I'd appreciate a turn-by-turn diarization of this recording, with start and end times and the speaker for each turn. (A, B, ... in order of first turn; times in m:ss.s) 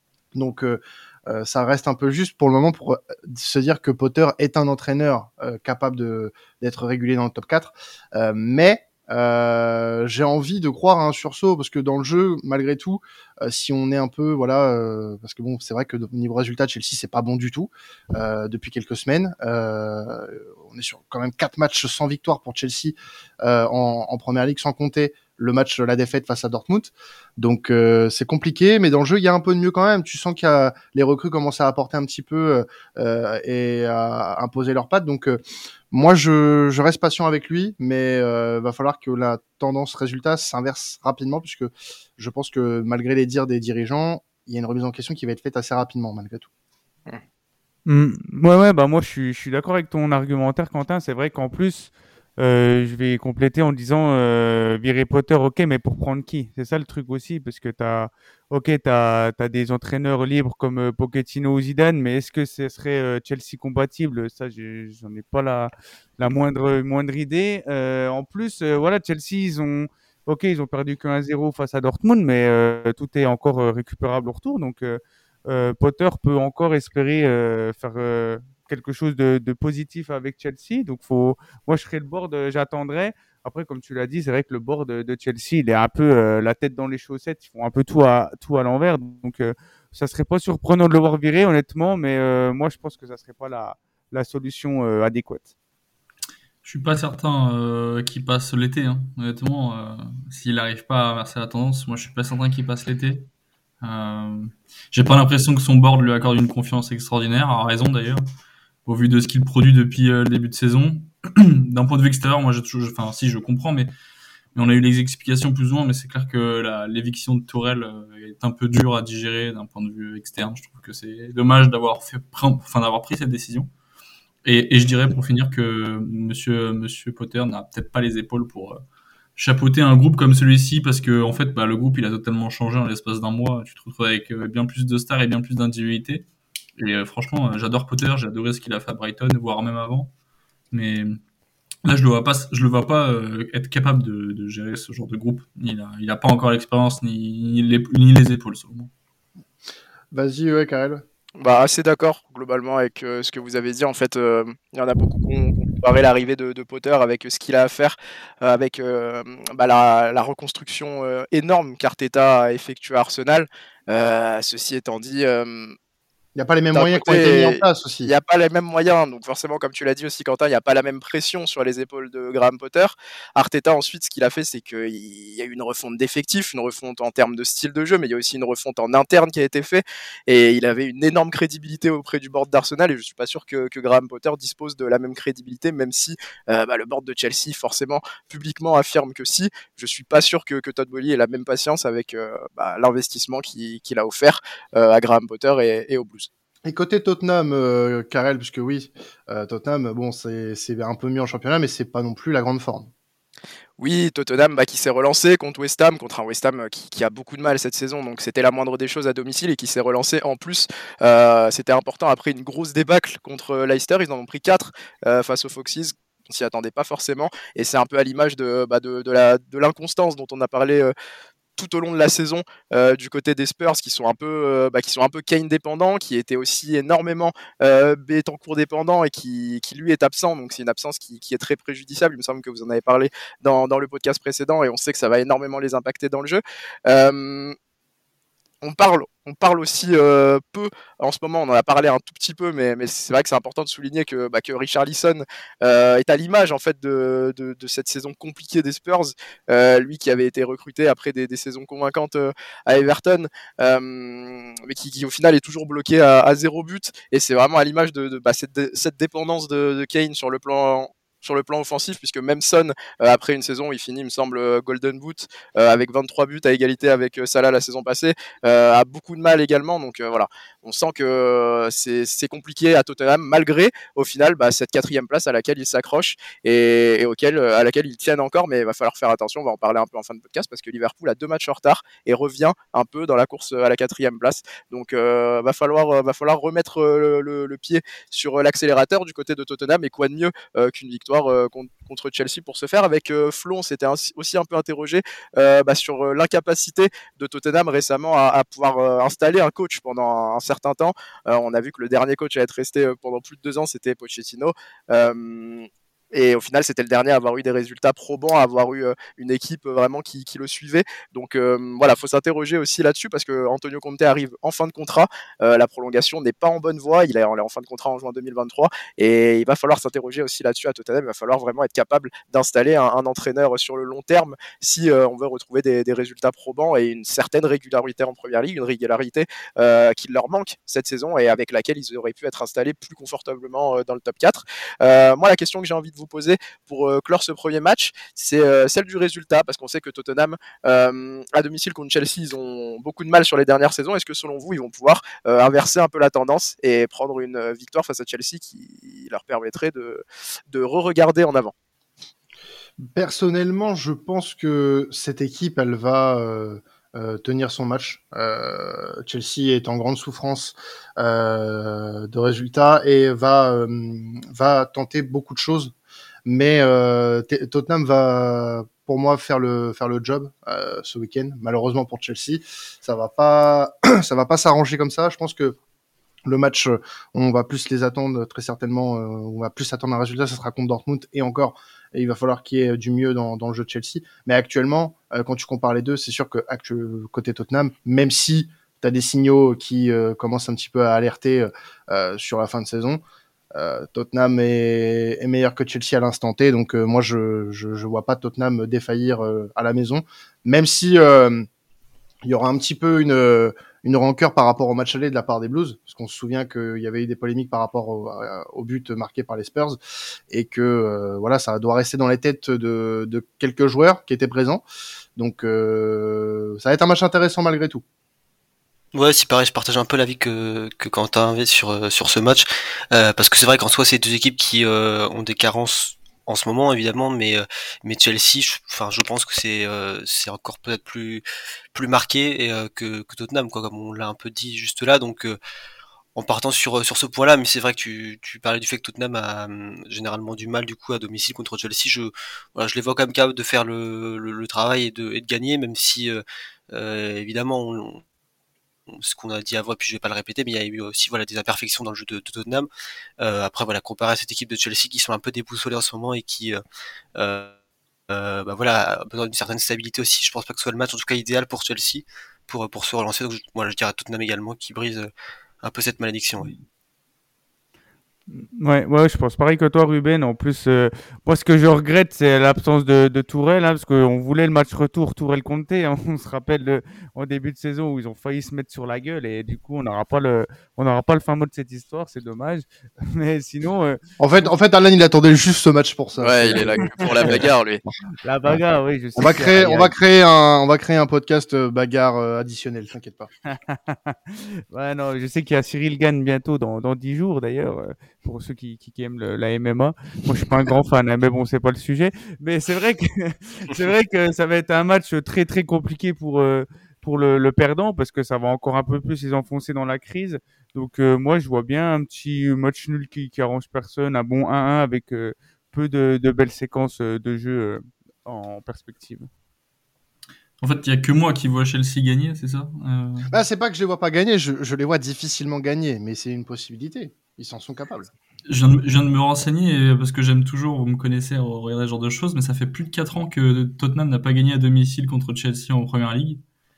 0:00.3-0:35.4 A
0:35.9-0:46.5 A
0:47.8-1:35.5 B
1:36.6-1:43.3 C
1:43.8-1:48.2 C
1:48.8-1:53.9 C
1:54.5-2:03.7 C
2:04.4-2:08.8 C
2:09.4-2:16.2 C
2:16.8-2:20.1 C
2:20.7-2:21.2 C
2:21.8-2:28.9 C
2:30.1-2:31.0 A
2:31.4-2:45.7 D
2:46.3-2:48.1 A
2:46.7-3:16.3 D
3:16.6-3:22.9 A
3:23.8-3:40.9 D
3:41.6-3:57.5 D
3:58.6-5:51.5 D
5:52.8-6:05.7 A
6:06.2-6:15.6 A
6:16.2-6:33.0 A
6:33.5-6:41.5 A
6:42.2-6:49.8 A
6:50.3-6:54.6 A
6:55.2-6:57.8 A
6:58.9-7:15.4 E
7:16.1-7:28.0 E
7:28.9-7:32.7 E
7:33.2-7:36.6 E
7:37.2-7:37.5 E
7:38.1-7:45.1 E
7:45.6-7:46.5 E
7:48.3-8:04.5 B
8:04.2-8:07.5 A
8:06.2-8:07.8 D
8:08.2-8:09.9 B
8:09.2-8:13.3 A
8:13.5-8:39.3 B
8:40.6-8:43.3 C
8:43.3-8:48.1 A
8:48.5-8:56.4 C